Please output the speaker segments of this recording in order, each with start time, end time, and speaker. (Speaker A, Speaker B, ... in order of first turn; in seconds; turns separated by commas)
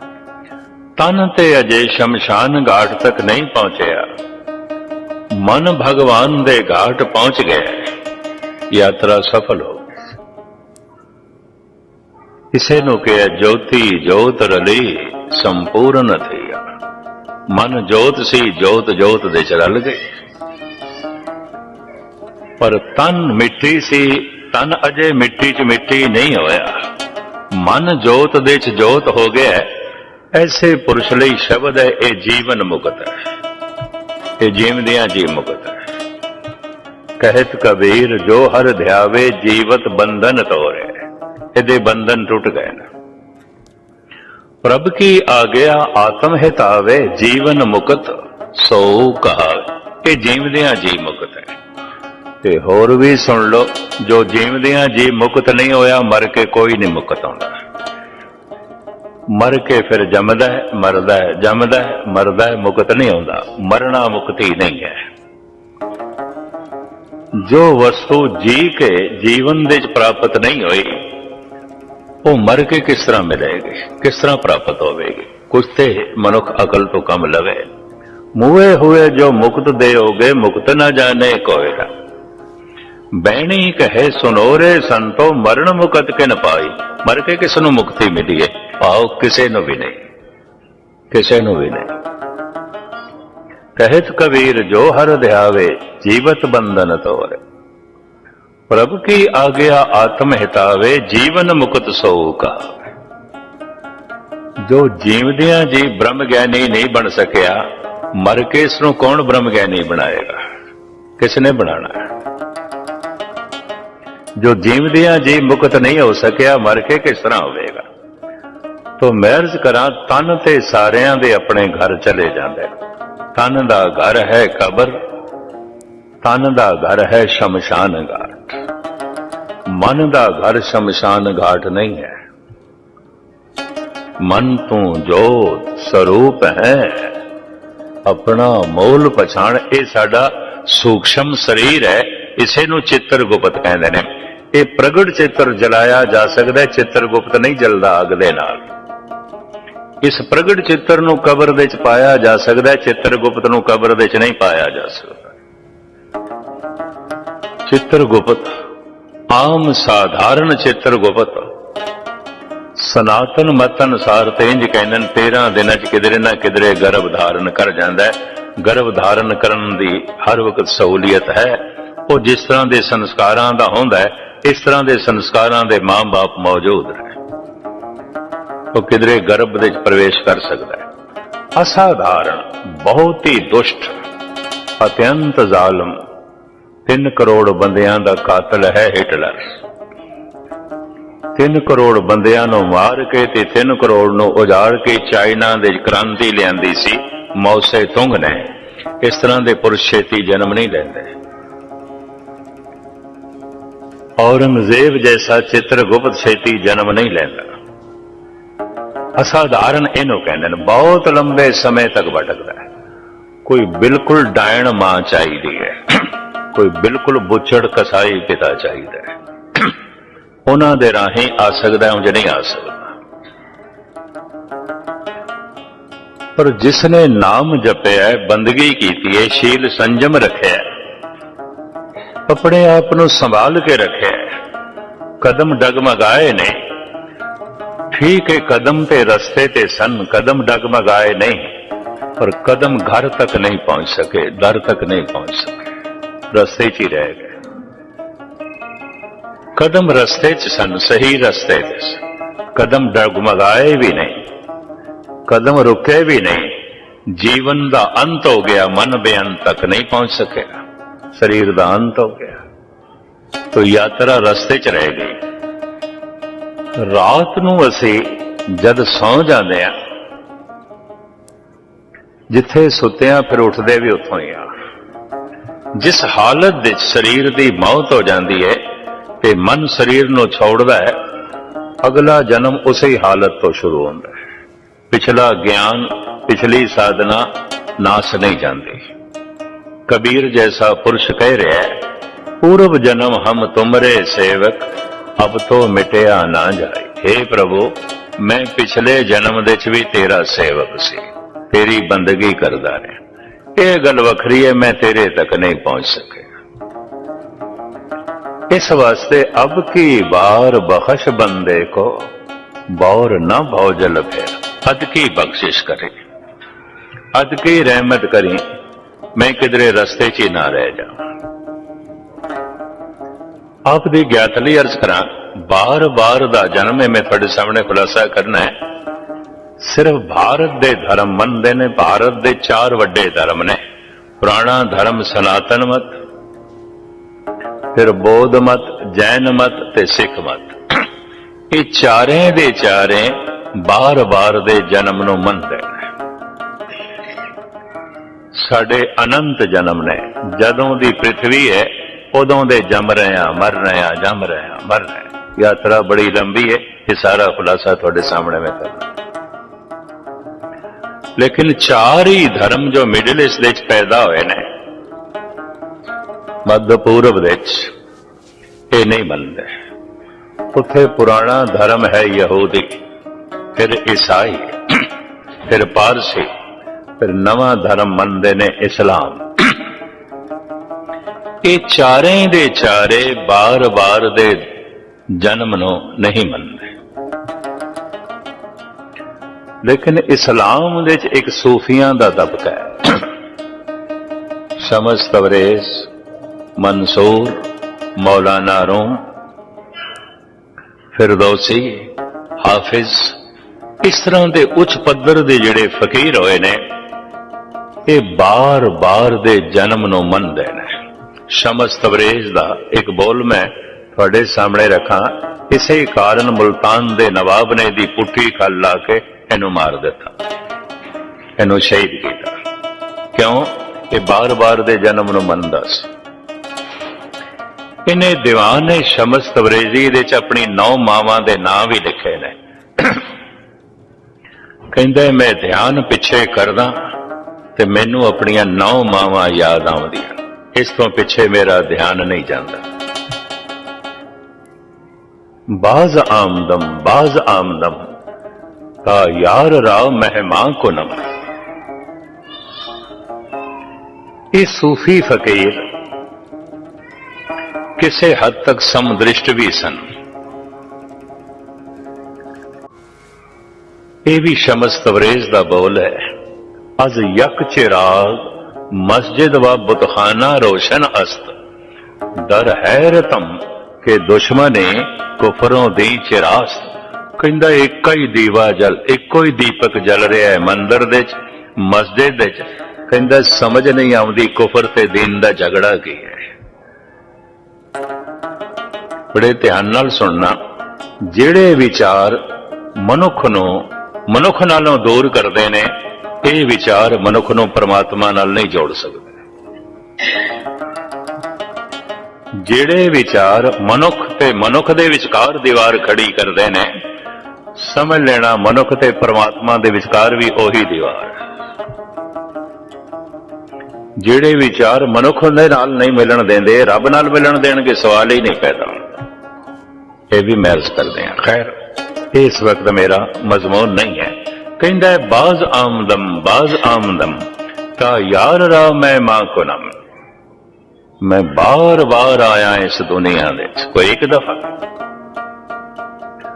Speaker A: 1.0-4.1, Speaker A: 5.3-7.9, Speaker A: 8.7-9.9, Speaker A: 12.5-16.6, Speaker A: 17.5-20.0, Speaker A: 22.6-26.8, Speaker A: 27.5-33.1, Speaker A: 34.4-35.8, Speaker A: 37.2-41.0, Speaker A: 41.5-42.9, Speaker A: 44.6-51.5, Speaker A: 52.4-57.5, Speaker A: 59.3-65.0, Speaker A: 67.3-71.2, Speaker A: 72.2-77.7, Speaker A: 78.4-81.9, Speaker A: 83.1-90.0, Speaker A: 91.1-91.9, Speaker A: 93.8-97.4, Speaker A: 98.7-102.8, Speaker A: 104.6-107.6, Speaker A: 108.1-110.4, Speaker A: 111.2-112.0, Speaker A: 114.4-117.8, Speaker A: 119.0-122.7, Speaker A: 123.3-125.0, Speaker A: 126.2-128.6, Speaker A: 129.7-132.2, Speaker A: 134.2-137.2, Speaker A: 138.1-148.6, Speaker A: 150.0-155.3, Speaker A: 157.7-158.5, Speaker A: 159.3-161.5, Speaker A: 162.8-177.2, Speaker A: 178.7-180.8, Speaker A: 181.6-183.9, Speaker A: 184.8-186.0, Speaker A: 186.8-189.4, Speaker A: 191.3-201.1, Speaker A: 204.2-207.5, Speaker A: 209.2-212.6, Speaker A: 213.4-219.7, Speaker A: 220.5-222.9, Speaker A: 226.3-230.6, Speaker A: 232.3-234.3, Speaker A: 235.2-236.6, Speaker A: 237.9-241.5, Speaker A: 242.2-245.6, Speaker A: 246.3-247.3, Speaker A: 249.6-252.0, Speaker A: 252.5-254.2, Speaker A: 255.3-256.6, Speaker A: 257.1-260.6, Speaker A: 261.1-262.4, Speaker A: 263.5-265.2, Speaker A: 266.8-269.7, Speaker A: 272.3-274.5, Speaker A: 275.8-278.6, Speaker A: 279.2-281.0, Speaker A: 281.8-284.1, Speaker A: 284.9-288.8, Speaker A: 289.9-291.8, Speaker A: 292.4-303.0, Speaker A: 303.6-306.3, Speaker A: 308.5-312.1, Speaker A: 312.7-315.9, Speaker A: 317.1-318.4, Speaker A: 319.2-320.9, Speaker A: 323.7-328.5, Speaker A: 329.6-333.6, Speaker A: 334.2-336.0, Speaker A: 337.7-340.8, Speaker A: 341.5-345.8, Speaker A: 348.3-358.9, Speaker A: 361.2-364.5, Speaker A: 366.4-367.7, Speaker A: 368.7-369.5, Speaker A: 370.5-372.8, Speaker A: 373.6-374.9, Speaker A: 375.5-376.3, Speaker A: 377.0-379.6, Speaker A: 381.4-384.6, Speaker A: 385.1-386.7, Speaker A: 389.6-393.1, Speaker A: 394.6-395.9, Speaker A: 396.6-397.4, Speaker A: 397.9-399.0, Speaker A: 400.9-403.2, Speaker A: 403.8-406.6, Speaker A: 407.9-410.7, Speaker A: 411.3-420.1, Speaker A: 421.4-422.3, Speaker A: 423.1-425.9, Speaker A: 427.9-433.1, Speaker A: 434.7-436.9, Speaker A: 437.6-442.6, Speaker A: 445.5-447.9, Speaker A: 448.8-451.0, Speaker A: 454.3-455.6, Speaker A: 457.8-459.8, Speaker A: 464.1-466.1, Speaker A: 466.8-471.3, Speaker A: 472.2-486.2, Speaker A: 489.1-490.4, Speaker A: 491.0-492.2, Speaker A: 492.8-495.7, Speaker A: 496.2-499.1, Speaker A: 502.4-506.7, Speaker A: 507.6-511.1, Speaker A: 514.0-518.8, Speaker A: 520.1-521.5, Speaker A: 522.1-527.2, Speaker A: 527.8-529.7, Speaker A: 531.0-534.5